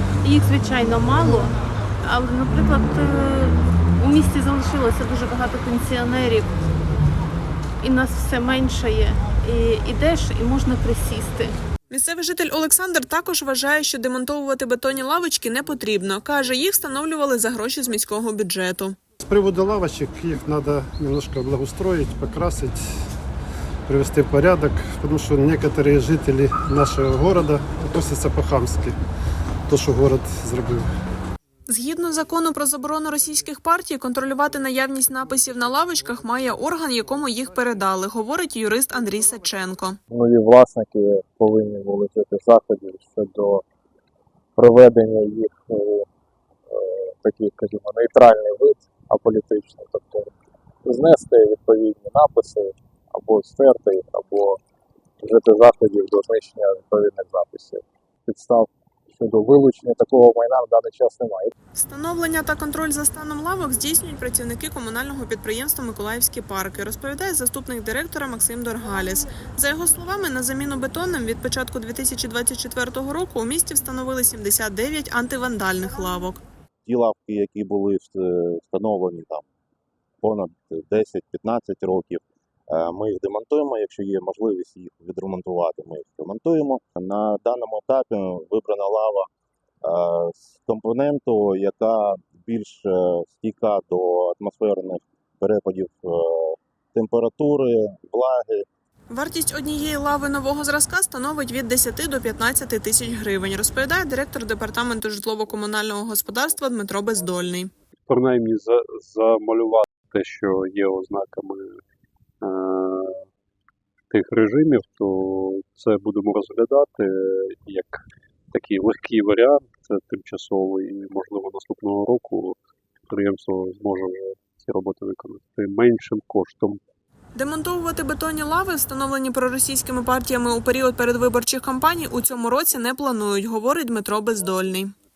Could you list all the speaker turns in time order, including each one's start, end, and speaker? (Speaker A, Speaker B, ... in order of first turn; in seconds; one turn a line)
Speaker A: 0.2-6.5
Speaker A: 7.8-11.5
Speaker B: 11.9-19.0
Speaker C: 19.2-22.8
Speaker C: 23.9-29.0
Speaker C: 29.7-30.9
Speaker B: 31.7-40.0
Speaker D: 40.1-43.6
Speaker D: 44.6-46.1
Speaker D: 46.7-50.3
Speaker D: 50.8-54.6
Speaker D: 55.2-61.5
Speaker B: 61.7-76.4
Speaker E: 76.8-79.5
Speaker E: 80.2-89.3
Speaker E: 89.8-98.7
Speaker B: 99.1-107.7
Speaker F: 108.1-111.8
Speaker F: 112.4-113.3
Speaker F: 114.1-122.6
Speaker F: 123.1-126.8
Speaker B: 127.3-134.9